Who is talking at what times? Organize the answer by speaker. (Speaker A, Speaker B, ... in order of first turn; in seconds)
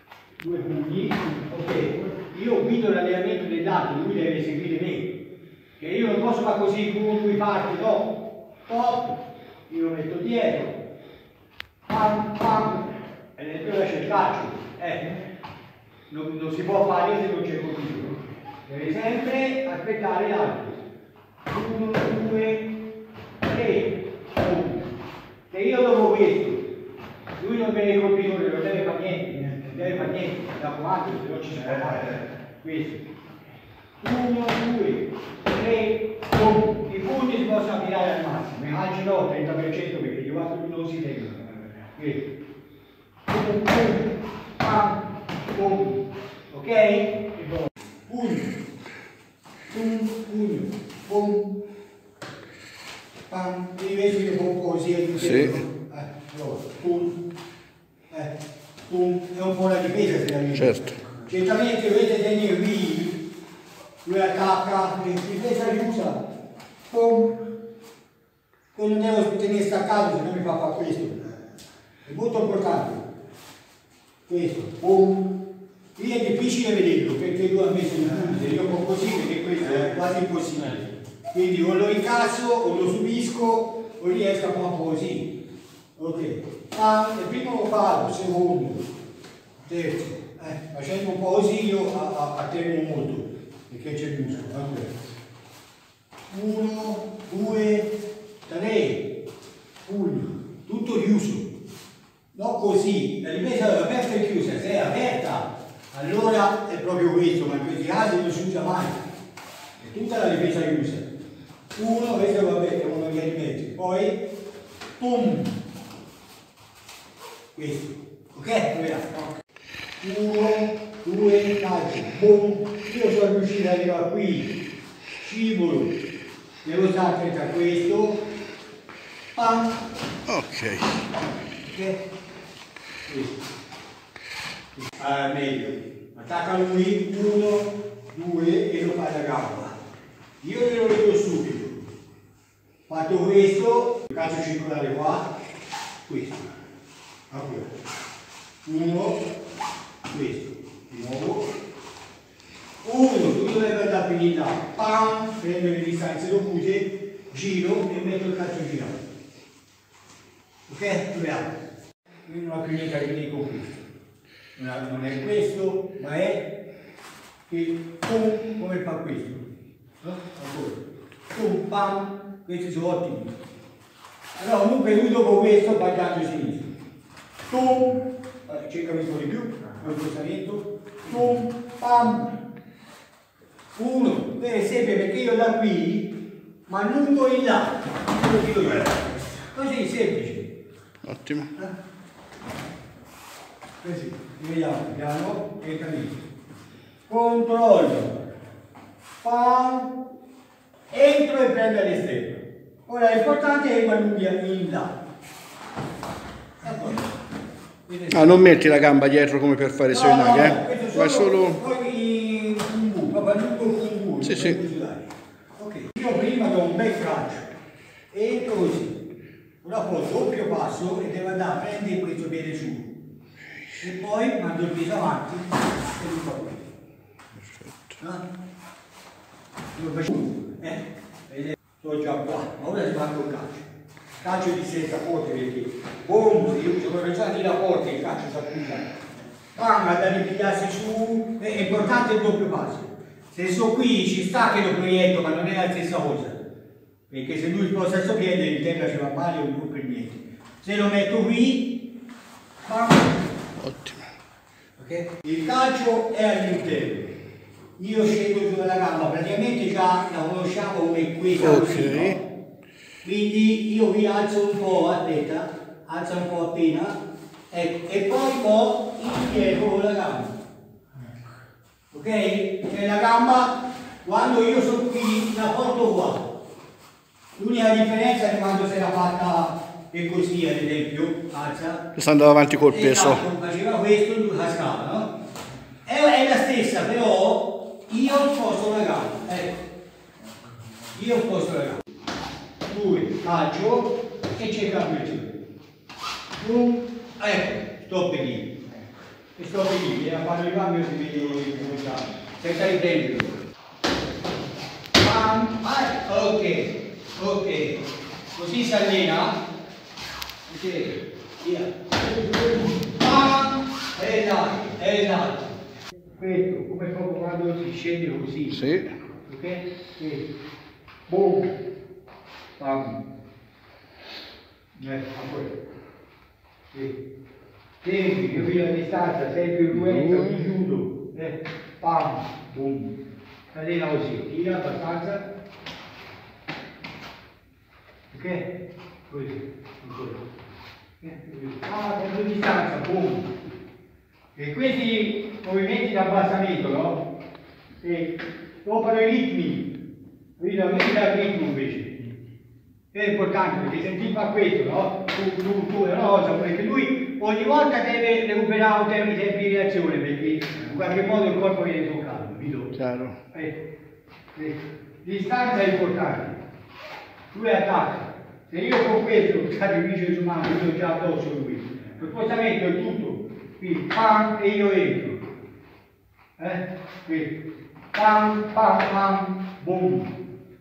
Speaker A: 0.4-5.1, 5.8-8.1, 8.7-10.8, 11.9-12.8, 13.4-15.1, 16.1-20.8, 21.5-22.7, 23.4-24.9, 25.5-26.6, 27.4-33.0, 34.0-42.2, 43.3-45.0, 45.5-48.5, 49.7-51.5, 53.3-57.2, 58.9-63.2, 64.0-66.2, 66.9-67.3, 68.7-71.3, 72.1-73.0, 74.3-75.2, 76.0-85.3, 86.0-88.9, 89.7-94.9, 96.3-97.9, 98.5-99.0, 99.8-101.5, 102.3-109.0, 109.8-111.1, 111.8-114.2, 115.0-115.5, 117.5-119.2, 120.0-124.5, 125.2-125.9, 126.7-128.2, 129.3-129.7, 131.6-132.0, 133.1-133.4, 134.8-139.8, 140.4-141.8, 142.9-145.3, 146.1-146.5, 147.3-147.7, 148.7-149.2, 150.1-151.5, 152.8-159.0, 160.7-161.5, 162.3-163.7, 164.6-166.4, 167.5-169.4, 170.0-170.8, 171.3-173.3, 174.4-176.7, 177.5-182.3, 183.8-186.1, 186.7-190.5, 193.8-196.2, 197.1-198.2, 199.2-199.9, 200.9-204.9, 206.6-207.1, 207.9-208.6, 209.9-215.0, 215.6-217.5, 218.1-219.0, 219.6-222.9, 223.8-226.7, 228.0-228.2, 229.8-233.7, 234.2-238.9, 239.5-246.4, 247.1-251.7, 252.7-253.2, 254.8-257.1, 257.8-262.2, 263.0-267.0, 267.5-270.3, 271.9-276.2, 277.4-281.9, 282.6-285.1, 285.9-289.6, 290.9-291.8, 292.7-295.4, 296.4-298.6, 299.4-303.4, 305.0-307.8, 308.4-309.4, 310.5-315.6, 316.2-318.7, 319.2-320.3, 321.1-321.5, 322.6-323.0, 324.8-325.5, 327.8-332.9, 333.5-335.2, 338.1-338.5, 339.1-340.2, 341.0-343.3, 344.4-347.0, 347.8-349.7, 350.4-352.0, 352.9-362.8, 363.3-363.6, 364.4-366.4, 367.3-375.2, 376.4-377.3, 377.9-380.1
Speaker B: 130.3-130.9, 191.1-191.5, 208.1-211.6, 214.3-214.6, 253.6-254.0, 261.4-262.2, 282.0-283.2, 318.6-318.9, 362.8-363.2